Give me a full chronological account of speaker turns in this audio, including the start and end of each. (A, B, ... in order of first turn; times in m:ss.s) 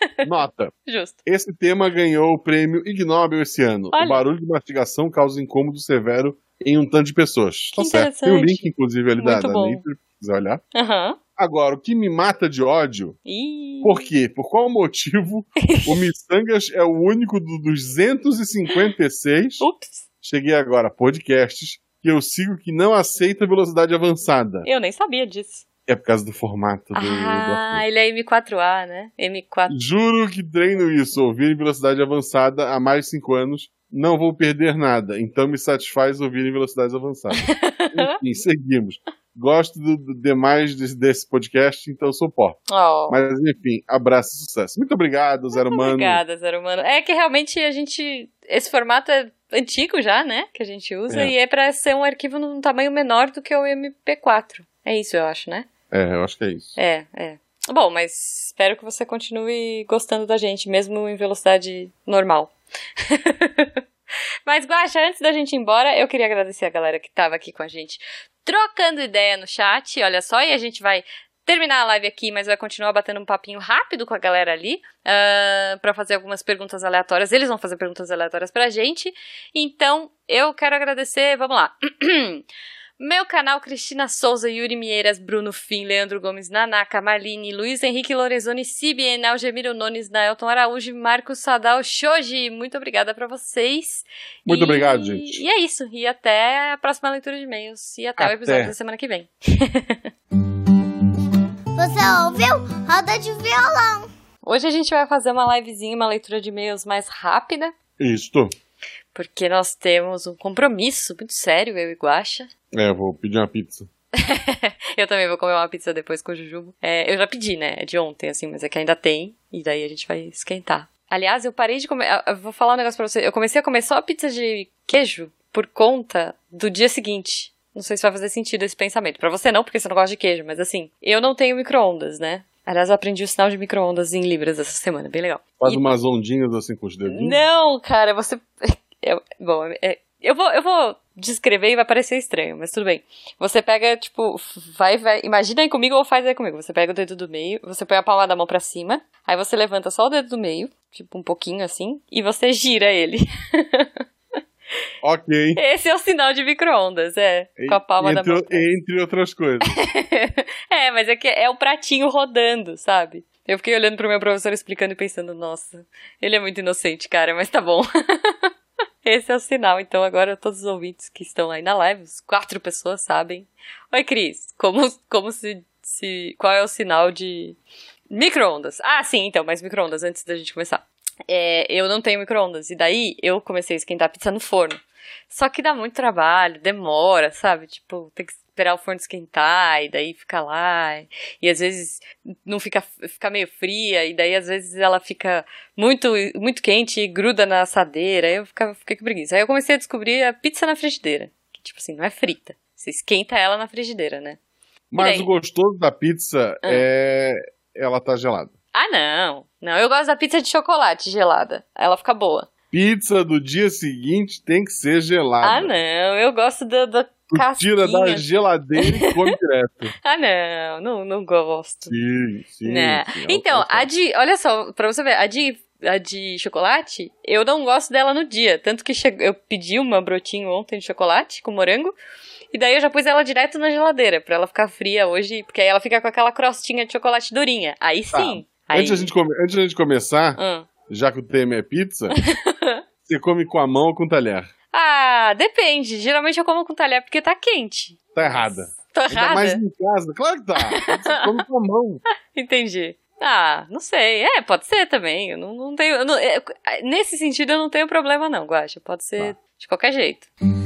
0:00.2-0:00.7 A
0:00.9-0:01.2 B
0:01.3-0:10.6 A
0:03.9-0:04.2 B
0:07.8-0:08.6 B
0:09.2-0:09.8 B
0:10.7-0:11.2 B
0:11.4-0:13.2 A
0:13.3-0:14.1 B
0:13.8-0:19.7 A
0:15.7-0:16.0 B
0:19.6-0:20.1 B
0:20.2-0:24.7 A
0:24.6-0:25.7 B
0:25.9-0:27.8 A
0:27.0-0:29.8 B
0:29.7-0:46.2 A
0:37.3-0:38.2 B
0:42.7-0:43.2 B
0:45.6-0:55.7 B
0:51.1-0:51.3 A
0:55.9-0:56.8 A
0:56.8-1:03.8 B
1:04.5-1:22.4 B
1:23.0-1:40.0 B
1:34.5-1:35.4 A
1:38.2-1:38.7 A
1:41.8-1:44.1 C
1:44.4-1:47.7 B
1:48.0-1:48.5 A
1:49.1-1:52.5 B
1:52.7-1:53.9 A
1:54.2-2:15.9 B
2:15.6-2:17.4 A
2:17.1-2:33.9 B
2:35.0-2:35.6 A
2:35.6-2:38.7 B
2:37.6-2:39.8 A
2:39.7-2:48.5 B
2:49.0-2:57.6 B
2:58.1-3:24.4 B
3:24.9-3:28.5 A
3:25.0-3:25.3 B
3:28.7-3:32.5 B
3:32.7-3:35.7 A
3:35.4-3:38.3 B
3:37.3-3:39.9 A
3:38.8-3:39.1 B
3:40.0-3:42.0 B
3:41.9-3:43.9 A
3:42.6-3:52.0 B
3:52.5-3:59.1 B
3:58.1-4:02.2 A
4:00.4-4:00.7 B
4:02.2-4:02.8 B
4:03.1-4:04.5 A
4:04.7-4:09.6 B
4:08.2-4:12.0 A
4:10.7-4:11.3 B
4:12.3-4:20.3 B